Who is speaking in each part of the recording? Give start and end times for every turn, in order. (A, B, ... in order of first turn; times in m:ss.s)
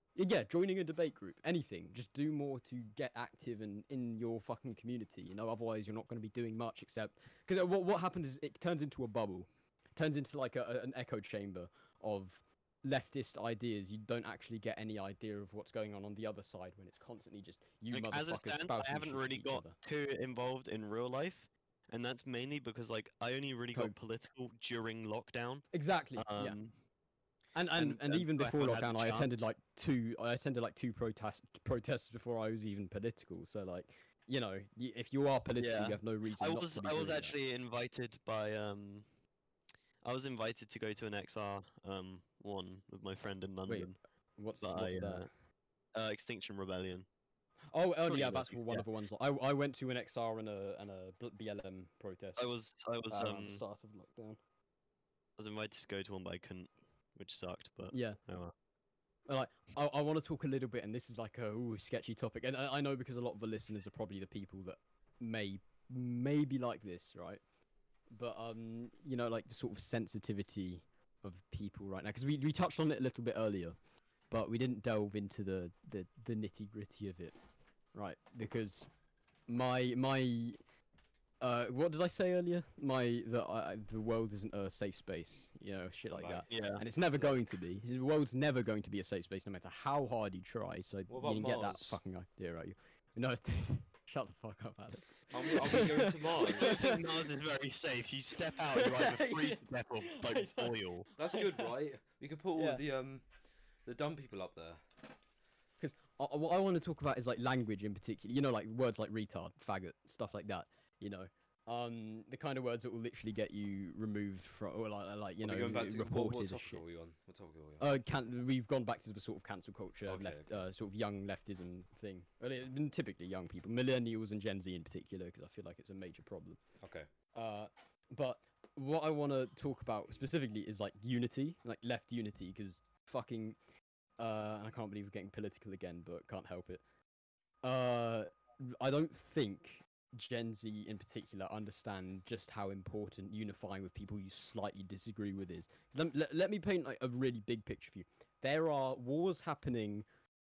0:00.2-0:19.8 A
0:17.9-0:26.7 B
0:25.7-0:26.6 A
0:27.5-0:37.4 A
0:27.8-0:29.5 B
0:35.6-0:39.0 B
0:40.0-0:44.0 B
0:43.7-0:45.3 A
0:44.6-0:45.3 B
0:45.9-0:47.0 B
0:47.7-0:52.4 A
0:48.0-0:48.9 B
0:52.4-0:53.6 B
0:53.1-0:54.4 A
0:55.4-0:58.5 B
0:57.9-0:58.2 A
0:59.3-1:07.4 A
1:08.1-1:13.8 A
1:14.3-1:17.3 A
1:17.9-1:18.9 A
1:19.5-1:20.6 A
1:21.4-1:37.2 A
1:26.1-1:26.5 C
1:26.5-1:26.8 B
1:31.1-1:32.0 C
1:35.3-1:36.8 C
1:36.4-1:41.1 B
1:38.5-1:41.7 A
1:41.2-1:43.2 C
1:42.5-1:42.8 A
1:43.8-1:44.8 C
1:45.8-1:56.8 A
1:55.4-1:57.9 C
1:57.8-2:06.6 A
2:00.0-2:00.5 C
2:06.8-2:07.1 C
2:07.3-2:13.6 A
2:14.2-2:16.8 A
2:17.6-2:30.0 A